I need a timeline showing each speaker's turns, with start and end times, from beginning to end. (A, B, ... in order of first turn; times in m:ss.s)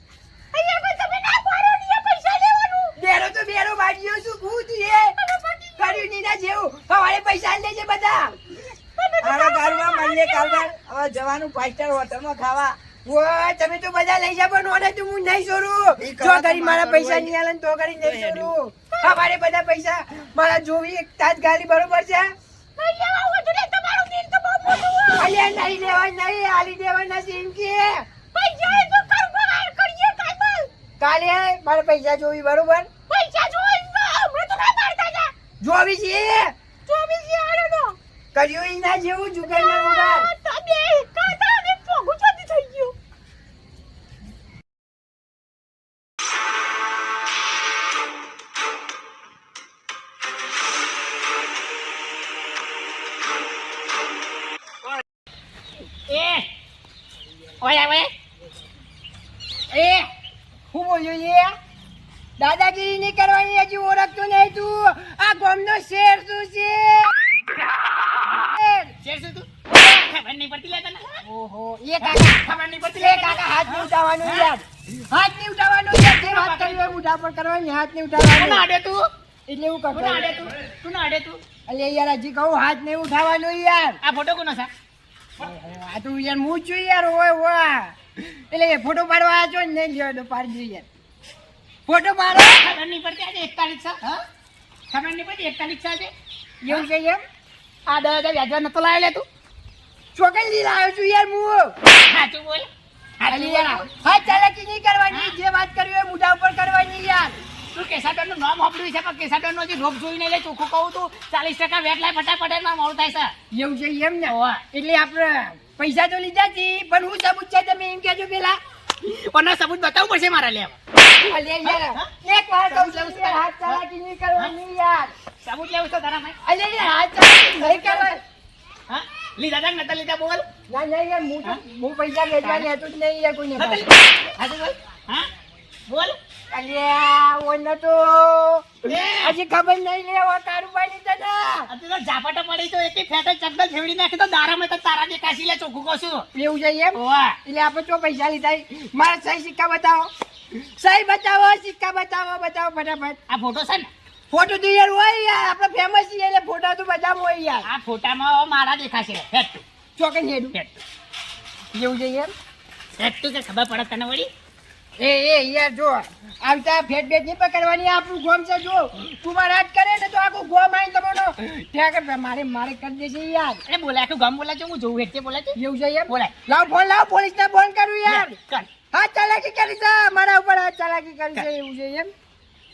0:00.5-0:03.0 A
0:03.0-0:05.1 B
0:05.2-0:06.1 A
0:05.8-0:08.4 B
0:09.0-0:10.7 A
0:09.2-0:12.8 C
0:13.0-0:22.3 B
0:16.0-0:17.3 C
0:18.0-0:18.5 C
0:18.9-0:19.2 A
0:22.8-0:25.9 A
0:25.2-0:28.1 B
0:28.3-0:30.7 A
0:31.0-0:32.9 B
0:33.1-0:35.3 A
0:35.6-0:36.5 B
0:36.8-0:38.0 A
0:38.3-0:40.3 B
0:39.4-0:42.9 A
0:56.1-0:56.5 D
0:57.6-0:58.1 D
0:59.7-1:00.1 B
1:00.7-1:01.6 B
1:02.4-1:07.1 B
1:08.5-1:08.9 B
1:09.0-1:11.2 D
1:11.2-1:12.4 B
1:12.0-1:14.5 D
1:13.0-1:18.6 B
1:15.9-1:16.9 D
1:18.2-1:19.1 D
1:19.5-1:20.5 B
1:19.9-1:21.4 D
1:21.7-1:24.0 B
1:24.0-1:24.7 D
1:25.4-1:28.0 B
1:28.5-1:30.8 B
1:31.9-1:32.7 B
1:32.3-1:34.2 D
1:34.9-1:36.1 D
1:36.6-1:37.2 B
1:37.9-1:39.2 D
1:40.1-1:41.8 B
1:42.0-1:42.7 D
1:43.2-1:44.4 D
1:43.3-1:47.4 B
1:47.7-1:53.3 D
1:53.5-1:58.6 B
1:54.3-1:54.6 D
1:59.0-2:00.8 D
2:01.0-2:05.1 B
2:01.6-2:02.1 D
2:02.6-2:03.8 D
2:05.4-2:06.4 D
2:06.4-2:08.2 B
2:07.6-2:08.1 D
2:08.9-2:10.4 D
2:10.7-2:13.9 B
2:12.4-2:12.7 D
2:13.6-2:15.3 D
2:15.9-2:16.2 D
2:16.5-2:21.7 B
2:18.8-2:19.4 D
2:21.7-2:26.2 D
2:26.3-2:33.2 B
2:26.9-2:27.4 D
2:33.3-2:33.9 D
2:34.3-2:37.7 B
2:37.6-2:39.6 D
2:40.0-2:40.7 B
2:41.7-2:42.3 B
2:43.0-2:44.3 D
2:45.0-2:53.6 B
2:53.7-2:55.6 D
2:55.6-2:58.3 B
2:58.0-2:58.7 D
2:58.9-3:02.1 B